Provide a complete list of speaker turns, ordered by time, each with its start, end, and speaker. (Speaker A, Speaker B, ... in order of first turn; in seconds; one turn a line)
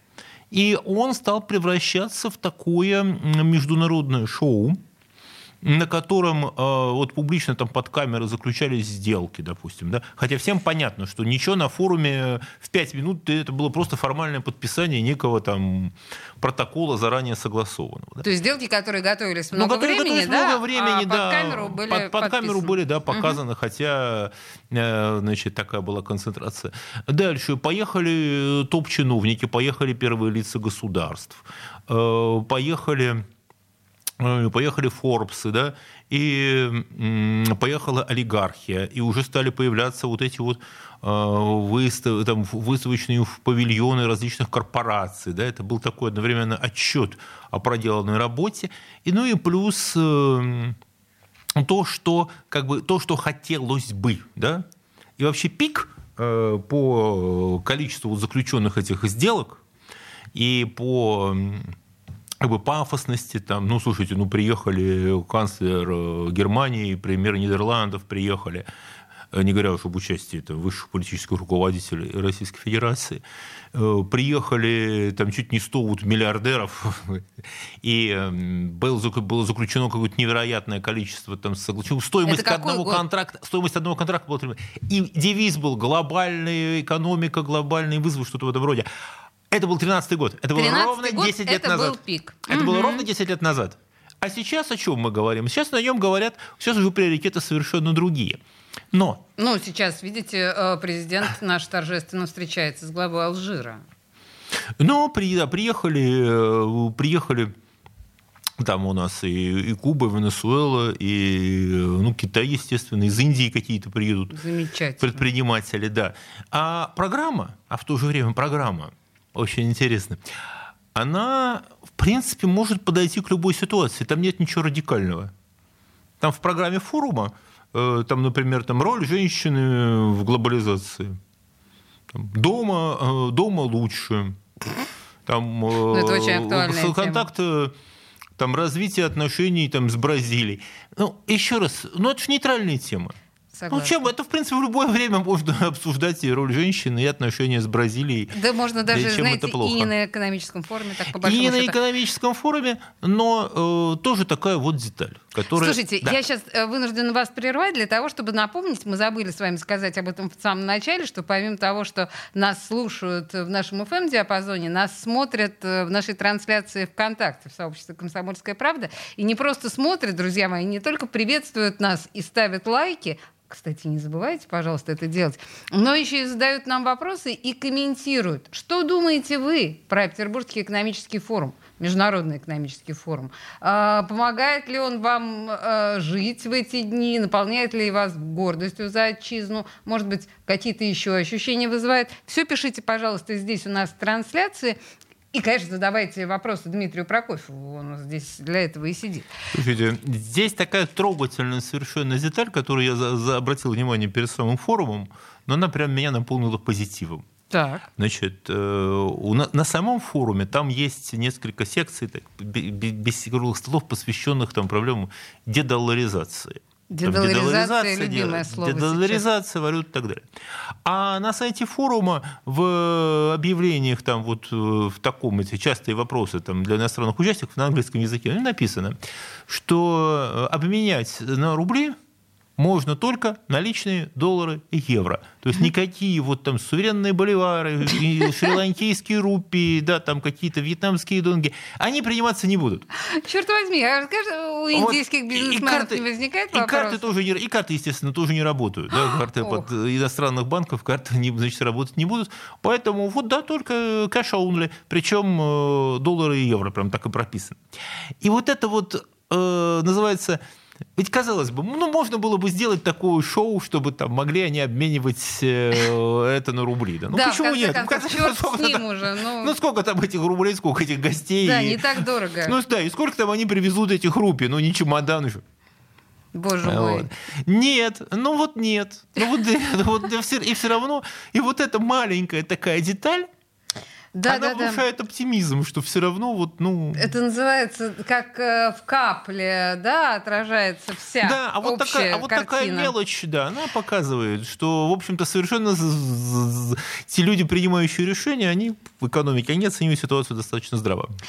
Speaker A: 0.5-4.8
Speaker A: 5.6-18.2
Speaker B: 18.2-23.4
Speaker A: 19.5-33.2
Speaker A: 34.2-50.8
Speaker A: 51.6-54.7
Speaker A: 55.2-59.6
Speaker A: 60.3-61.8
Speaker A: 62.4-68.7
Speaker A: 69.3-73.2
Speaker A: 73.7-77.3
Speaker A: 77.8-88.9
Speaker B: 82.3-83.0
Speaker A: 89.5-98.4
Speaker B: 90.6-93.1
Speaker A: 98.9-99.2
Speaker B: 99.4-103.8
Speaker A: 104.8-107.5
Speaker A: 108.6-114.4
Speaker B: 114.3-115.2
Speaker A: 115.0-120.2
Speaker A: 121.0-125.3
Speaker A: 126.2-131.2
Speaker A: 132.1-134.4
Speaker A: 135.3-137.7
Speaker B: 135.9-137.2
Speaker A: 138.4-143.2
Speaker B: 143.5-144.1
Speaker A: 143.7-148.3
Speaker B: 148.3-151.8
Speaker A: 148.9-149.9
Speaker A: 151.2-156.2
Speaker B: 155.6-194.8
Speaker B: 195.3-199.3
Speaker A: 199.5-207.3
Speaker B: 207.5-207.8
Speaker A: 208.0-220.3
Speaker B: 216.9-219.2
Speaker A: 220.8-232.0
Speaker A: 232.6-242.8
Speaker B: 242.9-247.1
Speaker A: 244.7-257.6
Speaker B: 248.9-249.7
Speaker A: 258.2-260.4
Speaker A: 261.0-268.9
Speaker B: 267.1-269.5
Speaker A: 269.4-275.4
Speaker B: 271.4-272.6
Speaker B: 276.3-277.1
Speaker A: 276.6-283.3
Speaker B: 284.1-284.8
Speaker A: 284.3-287.1
Speaker B: 286.9-292.9
Speaker A: 291.2-301.2